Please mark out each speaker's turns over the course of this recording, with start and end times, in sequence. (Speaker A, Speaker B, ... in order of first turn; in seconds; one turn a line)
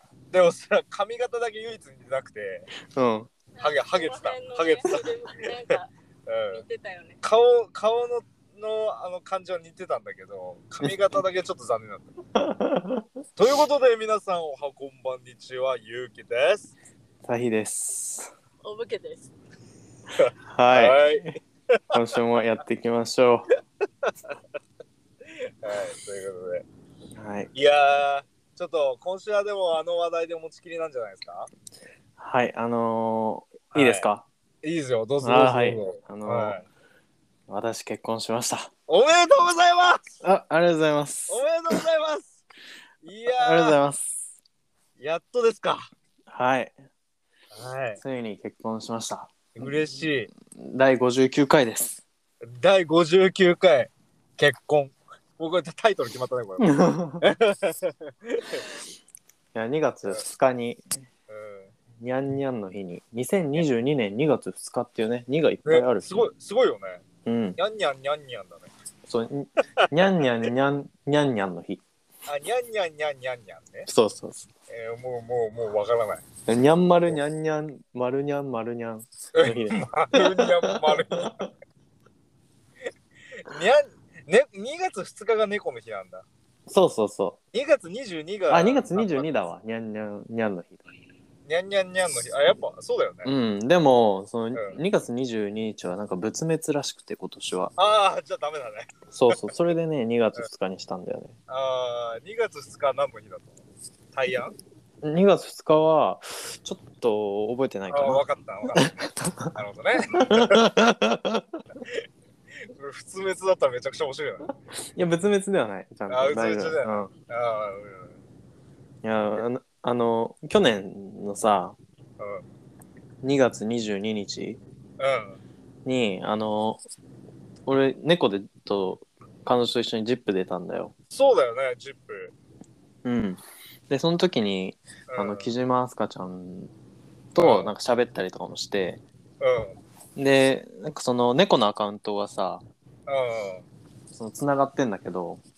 Speaker A: 0.3-2.7
Speaker B: 2.8-3.3
Speaker C: 3.5-5.9
Speaker A: 3.6-5.0
Speaker A: 6.3-6.6
Speaker C: 6.5-7.2
Speaker A: 7.2-12.2
Speaker B: 12.3-13.0
Speaker A: 13.4-16.7
Speaker B: 17.2-18.3
Speaker C: 18.6-19.3
Speaker A: 20.2-21.8
Speaker B: 20.5-21.4
Speaker B: 21.9-23.5
Speaker A: 24.0-24.3
Speaker A: 25.3-26.6
Speaker B: 27.1-27.5
Speaker A: 27.5-31.5
Speaker B: 32.2-34.2
Speaker A: 33.7-34.1
Speaker A: 34.6-36.7
Speaker B: 35.2-36.6
Speaker B: 37.5-38.7
Speaker A: 38.9-40.0
Speaker B: 40.2-41.8
Speaker A: 41.3-42.4
Speaker A: 43.0-43.8
Speaker B: 43.3-44.2
Speaker A: 45.0-45.9
Speaker B: 46.3-46.8
Speaker A: 47.5-48.0
Speaker B: 48.0-49.9
Speaker A: 49.5-50.3
Speaker B: 50.5-52.0
Speaker A: 52.5-58.6
Speaker B: 56.6-57.3
Speaker B: 59.5-60.8
Speaker A: 61.3-61.7
Speaker B: 62.0-66.3
Speaker A: 65.7-67.0
Speaker B: 67.2-67.6
Speaker A: 67.6-68.7
Speaker B: 69.1-71.8
Speaker A: 72.2-73.9
Speaker B: 73.9-74.5
Speaker A: 74.7-76.2
Speaker B: 76.5-81.4
Speaker A: 79.3-81.5
Speaker A: 83.4-86.2
Speaker B: 86.7-87.4
Speaker A: 87.5-89.3
Speaker B: 88.5-90.9
Speaker A: 91.5-93.3
Speaker B: 93.2-97.7
Speaker A: 97.8-99.5
Speaker B: 99.1-101.3
Speaker A: 101.5-104.5
Speaker B: 105.0-108.2
Speaker A: 107.9-109.0
Speaker B: 108.7-109.5
Speaker A: 109.5-110.7
Speaker B: 110.1-111.6
Speaker A: 112.7-114.5
Speaker B: 114.9-117.1
Speaker A: 116.1-118.2
Speaker B: 119.0-121.8
Speaker A: 122.2-122.4
Speaker B: 123.2-124.6
Speaker A: 125.0-125.4
Speaker B: 125.8-126.8
Speaker B: 127.7-130.9
Speaker A: 131.1-132.3
Speaker B: 133.0-136.7
Speaker A: 135.1-135.5
Speaker B: 137.3-139.0
Speaker A: 137.4-137.7
Speaker A: 139.4-139.8
Speaker B: 140.2-142.6
Speaker A: 143.1-143.7
Speaker B: 144.1-145.4